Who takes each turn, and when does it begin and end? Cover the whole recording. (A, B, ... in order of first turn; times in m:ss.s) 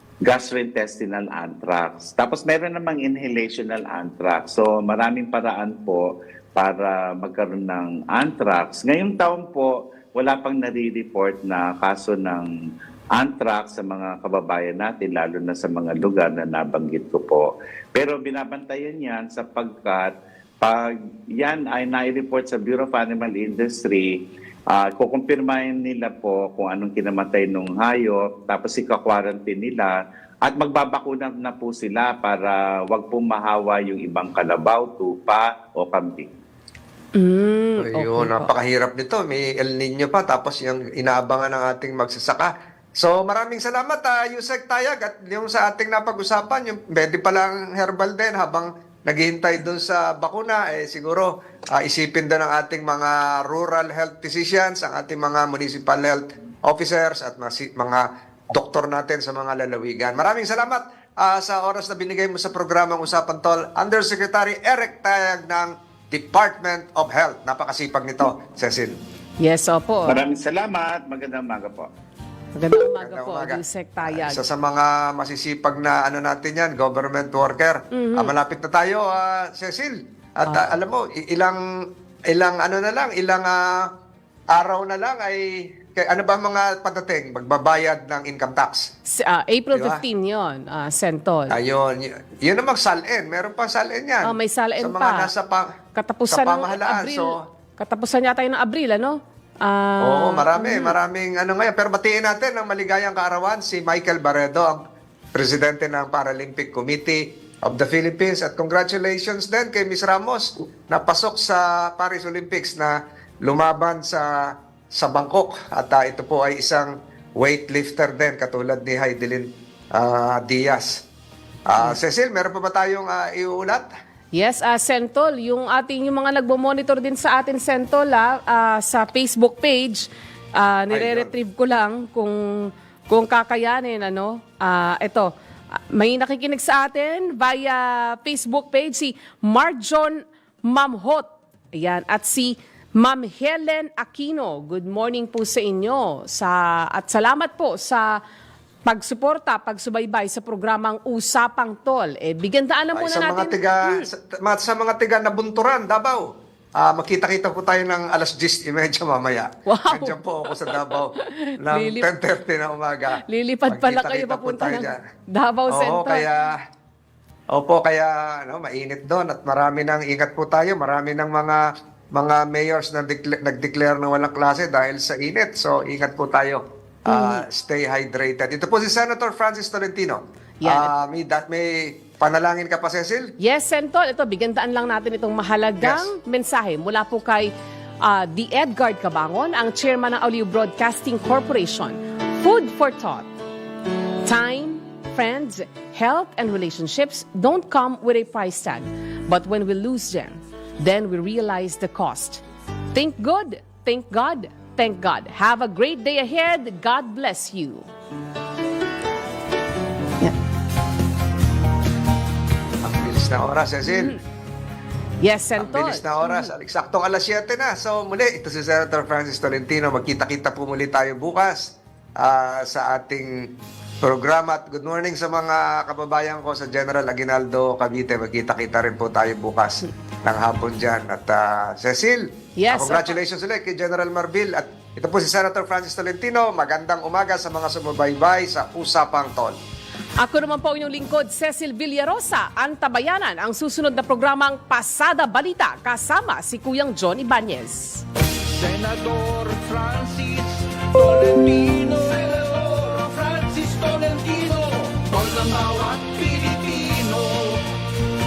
0:00.2-0:12.5 A
0:13.2-0:20.1 A
0:20.6-0:24.1 A
0:24.7-0:36.3 A
0:37.2-0:38.5 B
0:37.8-1:08.9 C
1:09.4-1:10.2 B
1:10.0-1:11.9 A
1:12.6-1:14.4 B
1:12.8-1:21.6 C
1:17.9-1:18.3 B
1:22.3-1:23.8 C
1:24.5-1:28.9 C
1:29.1-1:31.6 B
1:29.8-1:30.0 C
1:31.5-1:35.7 C
1:34.3-1:35.3 B
1:36.0-1:41.0 B
1:36.3-1:37.4 C
1:40.0-1:44.8 C
1:45.4-1:53.0 C
1:53.5-1:54.4 C
1:55.0-2:01.0 C
2:01.7-2:03.9 C
2:04.4-2:15.3 B
2:10.9-2:11.3 C
2:15.9-2:28.2 B
2:28.8-2:34.0 B
2:33.0-2:36.2 C
2:36.8-2:41.1 C
2:39.7-2:42.1 B
2:41.6-2:45.0 C
2:43.2-2:46.3 B
2:45.7-2:46.6 C
2:47.6-2:51.6 C
2:52.2-3:03.2 C
2:57.1-2:57.4 B
3:00.6-3:00.9 B
3:03.4-3:07.5 B
3:05.8-3:06.1 C
3:08.0-3:13.3 B
3:14.2-3:22.4 B
3:22.9-3:27.9 B
3:32.8-3:34.2 C
3:33.8-3:34.2 B
3:35.2-3:36.5 B
3:35.6-3:43.3 C
3:44.0-3:59.6 C
3:52.6-3:53.2 B
4:00.2-4:08.0 B
4:08.4-4:17.7 D